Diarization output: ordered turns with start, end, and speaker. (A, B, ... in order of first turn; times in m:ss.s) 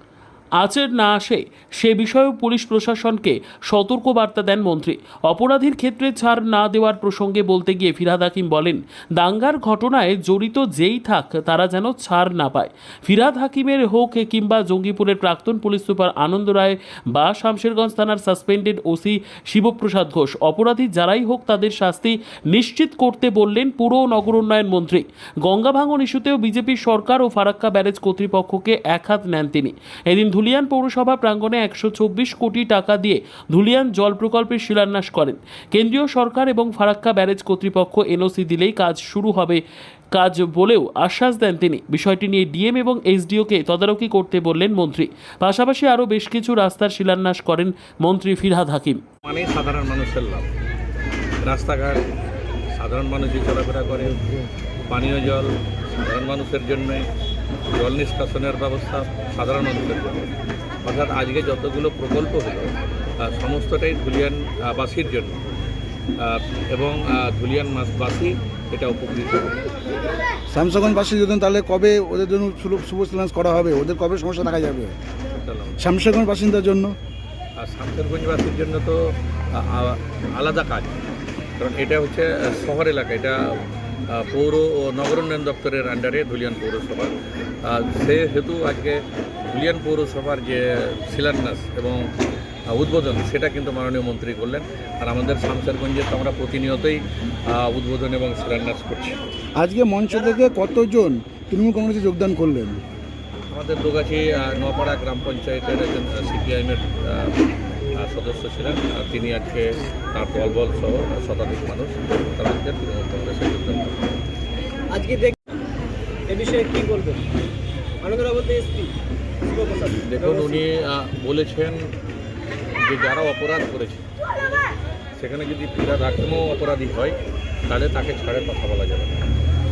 0:00.6-0:39.6 A
0:40.1-0:49.0 A
0:49.2-0:50.5 B
0:51.4-0:52.0 B
0:52.8-0:54.2 B
0:54.9-0:57.1 B
0:57.7-1:00.3 B
1:00.8-1:05.4 B
1:06.2-1:09.7 B
1:10.5-1:14.9 C
1:15.4-1:15.8 B
1:15.8-1:16.9 C
1:17.6-1:19.0 B
1:19.5-1:21.0 B
1:21.6-1:23.4 B
1:24.1-1:32.0 B
1:32.7-1:39.2 B
1:39.6-1:42.8 C
1:43.5-1:47.3 B
1:48.0-1:54.0 B
1:54.9-1:55.6 D
1:56.3-1:57.2 D
1:58.0-1:58.9 D
1:59.4-2:00.7 D
2:00.0-2:01.8 B
2:02.8-2:04.0 B
2:05.2-2:07.2 B
2:07.7-2:09.2 B